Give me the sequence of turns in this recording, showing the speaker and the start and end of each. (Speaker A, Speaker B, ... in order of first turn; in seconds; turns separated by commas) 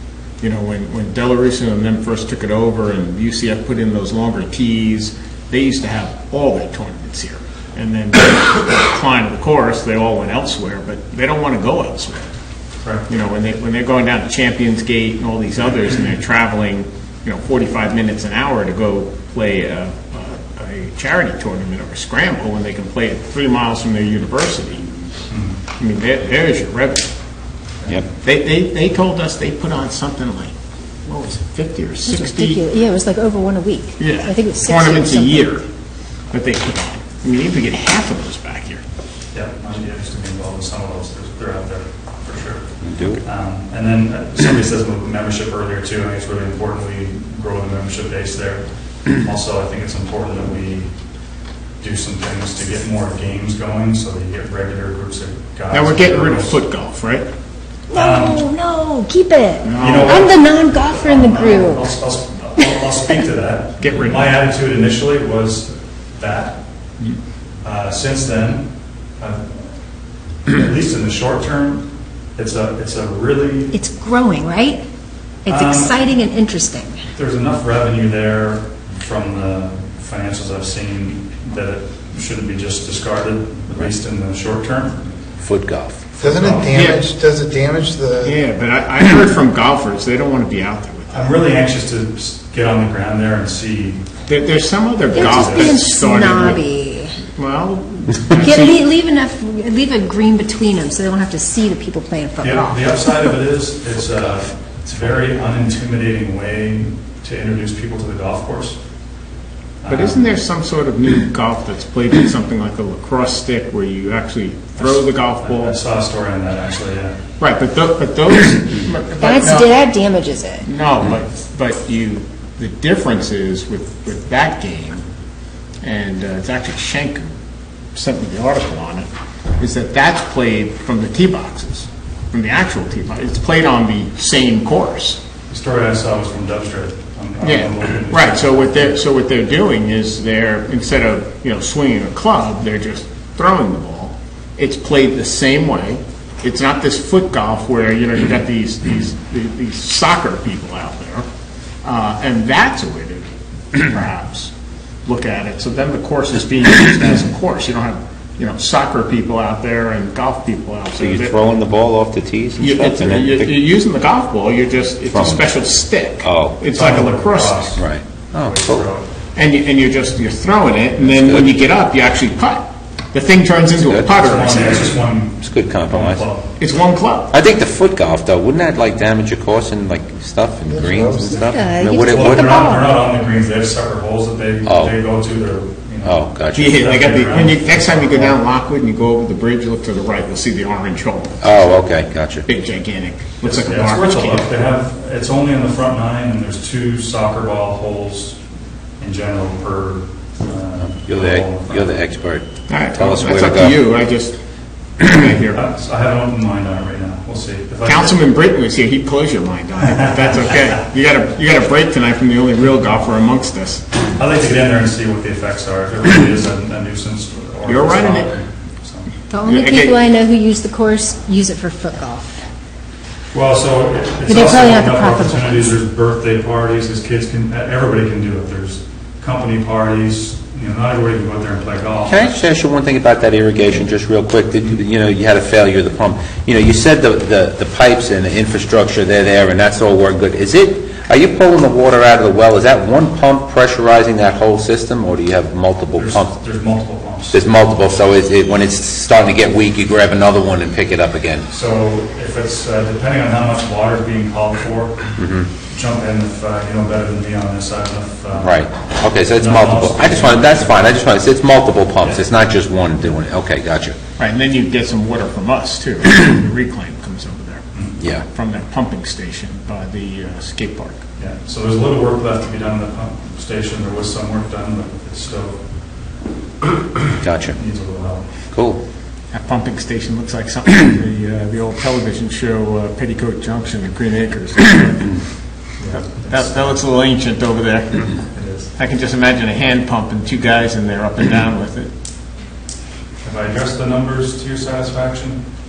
Speaker A: 0.4-12.3, Speaker A: 13.1-24.9, Speaker B: 25.3-25.6, Speaker A: 25.8-27.1, Speaker A: 28.2-30.5, Speaker A: 31.1-32.6, Speaker C: 32.1-35.5, Speaker A: 34.0-35.6, Speaker A: 36.3-38.8, Speaker B: 39.3-50.9, Speaker D: 42.8-43.2, Speaker B: 51.8-56.6, Speaker A: 55.7-57.3, Speaker C: 57.9-62.0, Speaker B: 57.9-58.5, Speaker A: 59.6-60.2, Speaker B: 59.7-66.6, Speaker C: 62.6-63.0, Speaker A: 63.8-64.4, Speaker B: 67.6-69.7, Speaker B: 70.5-73.7, Speaker C: 73.7-74.8, Speaker C: 75.4-77.0, Speaker B: 75.5-76.1, Speaker B: 77.1-85.4, Speaker D: 85.4-86.0, Speaker B: 86.1-86.9, Speaker E: 86.2-88.4, Speaker A: 86.7-87.1, Speaker A: 88.2-91.4, Speaker B: 91.1-94.0, Speaker A: 94.3-96.7, Speaker B: 95.1-95.8, Speaker C: 95.2-97.2, Speaker A: 97.2-98.8, Speaker C: 98.3-103.3, Speaker B: 102.4-108.8, Speaker B: 109.8-110.3, Speaker A: 109.9-115.8, Speaker B: 114.8-117.2, Speaker A: 117.4-119.8, Speaker C: 119.2-120.7, Speaker A: 120.6-125.0, Speaker A: 125.8-127.3, Speaker A: 127.9-129.1, Speaker A: 129.6-135.2, Speaker B: 135.5-138.9, Speaker A: 137.4-151.3, Speaker A: 151.8-154.5, Speaker A: 155.1-161.3, Speaker D: 161.0-163.5, Speaker A: 162.6-167.7, Speaker D: 165.1-165.5, Speaker D: 166.2-166.6, Speaker B: 166.7-169.1, Speaker D: 167.8-168.9, Speaker A: 169.3-174.9, Speaker D: 171.0-171.6, Speaker D: 173.8-174.1, Speaker B: 174.1-176.5, Speaker D: 175.4-176.3, Speaker A: 176.6-177.3, Speaker D: 177.3-182.6, Speaker E: 180.7-181.4, Speaker C: 181.4-182.9, Speaker B: 182.0-188.4, Speaker D: 184.7-184.9, Speaker D: 186.0-186.7, Speaker A: 186.5-191.5, Speaker D: 191.4-192.5, Speaker A: 192.4-194.5, Speaker B: 193.4-198.4, Speaker B: 199.0-202.1, Speaker D: 200.9-203.8, Speaker A: 202.7-204.4, Speaker A: 205.0-205.6, Speaker B: 205.5-208.2, Speaker A: 207.8-213.8, Speaker B: 214.2-219.1, Speaker A: 217.7-218.3, Speaker C: 219.3-222.4, Speaker A: 219.4-220.0, Speaker B: 223.3-232.3, Speaker C: 224.3-225.7, Speaker D: 232.1-246.4, Speaker B: 246.0-247.4, Speaker D: 247.3-251.5, Speaker B: 251.5-258.7, Speaker D: 255.2-255.5, Speaker D: 258.4-264.0, Speaker B: 259.3-260.8, Speaker A: 264.2-267.6, Speaker D: 268.0-268.2, Speaker A: 268.2-271.0, Speaker B: 271.2-275.6, Speaker D: 277.2-277.6, Speaker B: 277.4-278.3, Speaker D: 278.5-278.8, Speaker A: 279.3-285.2, Speaker B: 285.8-286.7, Speaker A: 285.9-288.2, Speaker B: 288.2-288.7, Speaker A: 288.8-291.9, Speaker B: 293.2-295.4